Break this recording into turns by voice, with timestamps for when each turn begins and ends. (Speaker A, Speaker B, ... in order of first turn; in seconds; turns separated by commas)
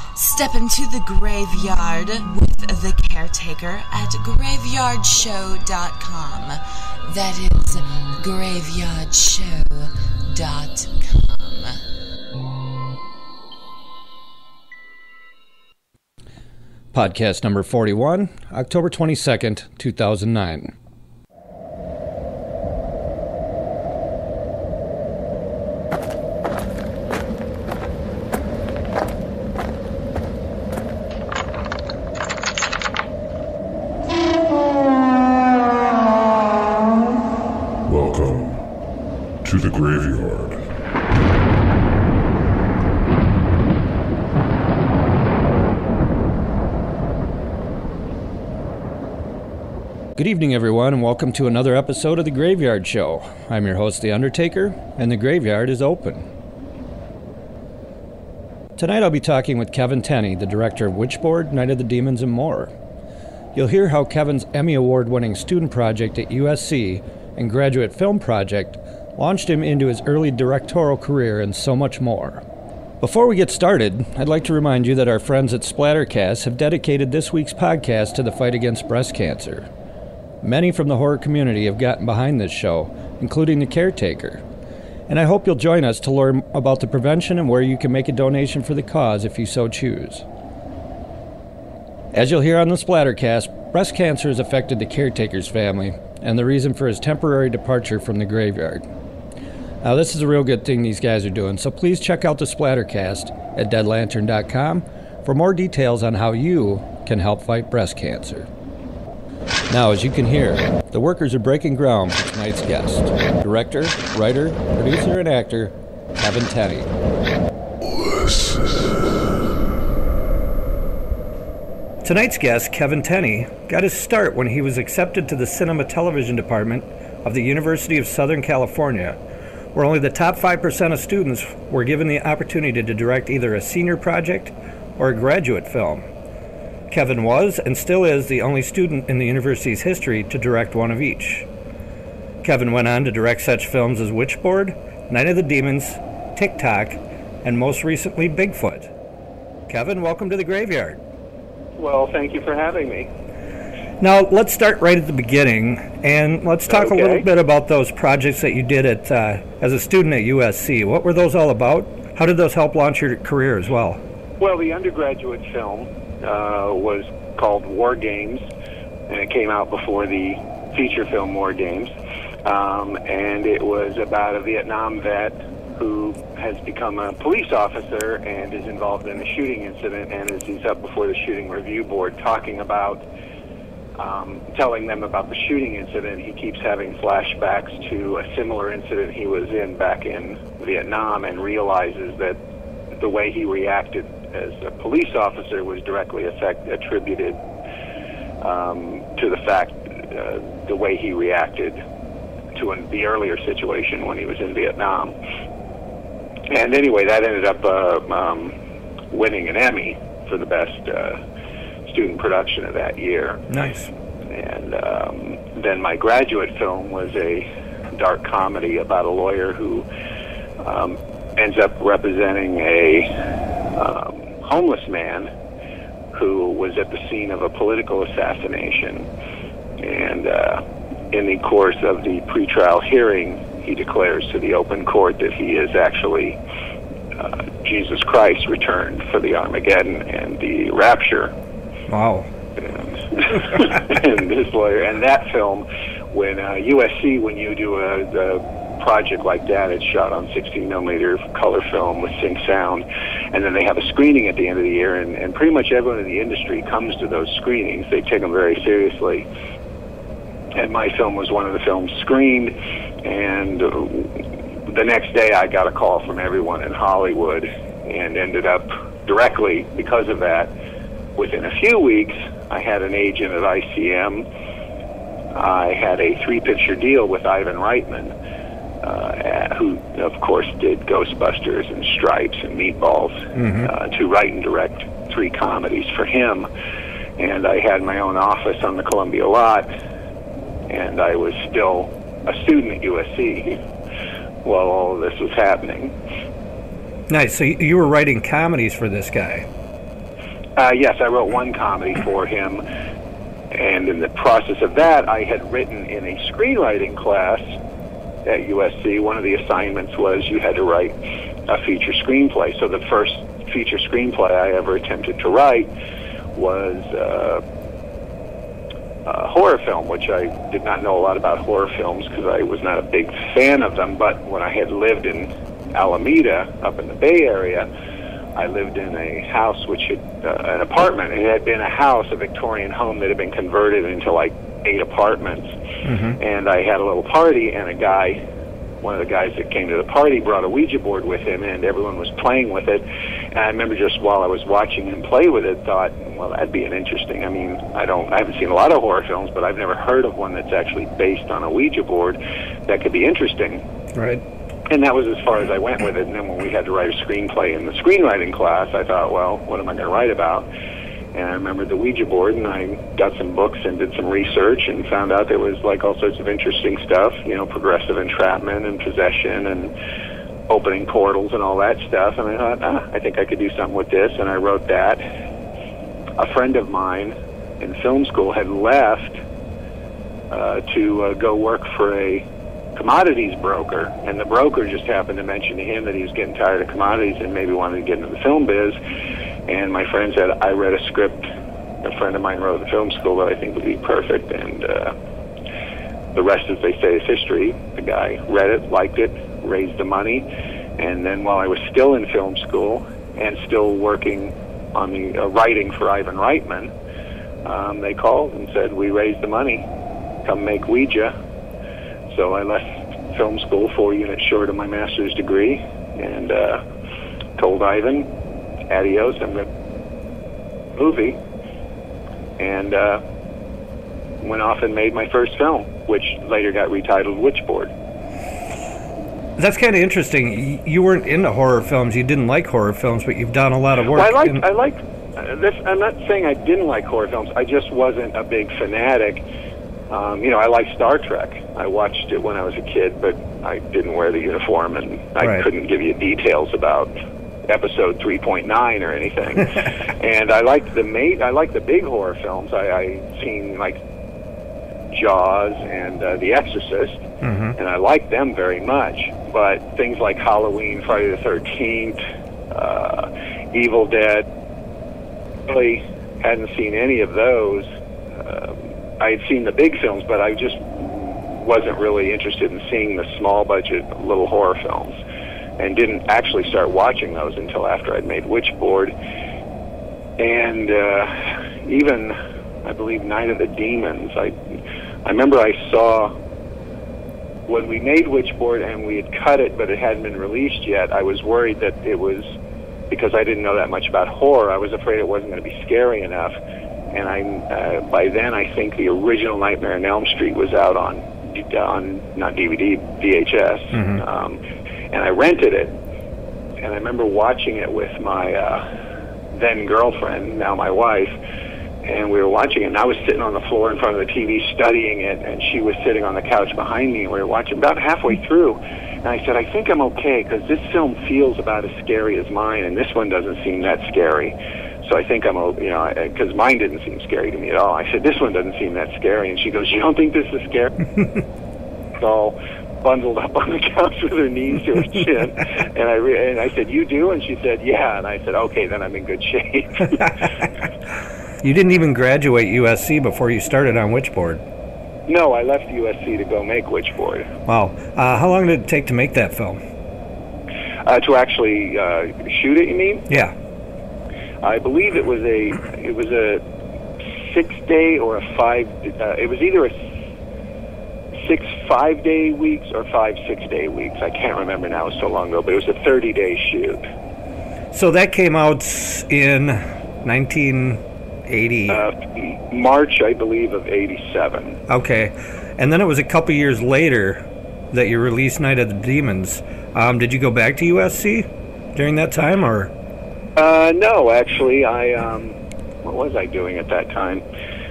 Speaker A: 0.2-11.8, Speaker B: 16.9-20.7, Speaker C: 37.9-38.6, Speaker C: 39.4-40.6, Speaker B: 50.2-56.3, Speaker B: 58.8-62.7, Speaker B: 63.5-72.4, Speaker B: 73.0-79.7, Speaker B: 80.4-84.4, Speaker B: 85.1-90.2, Speaker B: 92.1-98.8, Speaker B: 99.8-108.5, Speaker B: 109.7-116.9, Speaker C: 117.8-119.1, Speaker B: 122.0-129.2, Speaker B: 129.8-136.1, Speaker B: 136.9-141.5, Speaker B: 142.4-148.9, Speaker B: 149.7-151.0, Speaker D: 151.8-153.1, Speaker B: 154.0-164.0, Speaker D: 156.7-157.3, Speaker D: 164.4-168.4, Speaker D: 169.1-171.9, Speaker D: 172.4-183.0, Speaker D: 184.0-192.4, Speaker D: 193.0-197.4, Speaker D: 198.4-201.8, Speaker D: 202.6-205.2, Speaker D: 206.5-208.6, Speaker D: 209.1-211.2, Speaker D: 211.9-213.4, Speaker B: 213.5-213.9, Speaker D: 214.3-219.9, Speaker D: 220.6-223.1, Speaker D: 223.8-225.3, Speaker D: 226.1-229.1, Speaker D: 229.8-236.4, Speaker D: 237.2-241.3, Speaker B: 241.9-242.3, Speaker D: 242.6-259.3, Speaker D: 260.6-264.2, Speaker D: 264.7-270.5, Speaker D: 271.2-274.3, Speaker D: 275.3-278.1, Speaker D: 278.8-286.5, Speaker B: 283.4-283.7, Speaker D: 287.2-289.7, Speaker D: 290.7-293.6, Speaker D: 294.4-295.9, Speaker B: 297.1-299.5, Speaker D: 300.6-302.6, Speaker D: 303.5-307.5, Speaker D: 308.2-311.0, Speaker D: 311.5-315.7, Speaker D: 316.4-317.4, Speaker D: 319.1-327.7, Speaker D: 328.4-335.5, Speaker B: 335.9-336.2, Speaker D: 336.2-338.2, Speaker D: 338.8-353.6, Speaker B: 353.9-354.2, Speaker D: 354.7-360.5, Speaker D: 361.1-369.7, Speaker D: 370.5-375.0, Speaker D: 376.2-379.2, Speaker D: 380.3-388.8, Speaker D: 389.5-391.3, Speaker D: 391.8-394.9, Speaker D: 396.1-406.7, Speaker D: 407.4-409.7, Speaker D: 410.2-411.1, Speaker D: 412.1-416.6, Speaker D: 417.4-418.1, Speaker D: 418.7-419.5, Speaker D: 420.8-421.2, Speaker D: 422.4-423.0, Speaker D: 424.2-427.7, Speaker B: 429.4-434.4, Speaker D: 433.9-439.2, Speaker D: 439.9-446.9, Speaker B: 445.2-445.5, Speaker D: 447.5-453.8, Speaker D: 454.9-457.0, Speaker B: 457.2-457.6, Speaker D: 457.6-462.0, Speaker D: 462.5-464.3, Speaker D: 465.5-475.0, Speaker D: 475.6-478.9, Speaker D: 480.2-484.4, Speaker D: 485.1-486.1, Speaker D: 487.5-492.3, Speaker D: 492.9-496.4, Speaker D: 496.9-504.4, Speaker B: 503.7-504.0, Speaker D: 504.9-505.8, Speaker D: 506.6-508.6, Speaker D: 509.3-511.1, Speaker D: 511.8-530.7, Speaker D: 532.0-540.2, Speaker B: 541.4-544.4, Speaker D: 545.1-547.3, Speaker B: 547.5-549.6, Speaker D: 550.9-553.0, Speaker B: 553.1-553.4, Speaker D: 554.4-556.4, Speaker D: 557.1-559.8, Speaker D: 561.2-566.9, Speaker B: 567.7-571.8, Speaker D: 571.7-574.6, Speaker B: 574.7-582.7, Speaker D: 583.4-587.2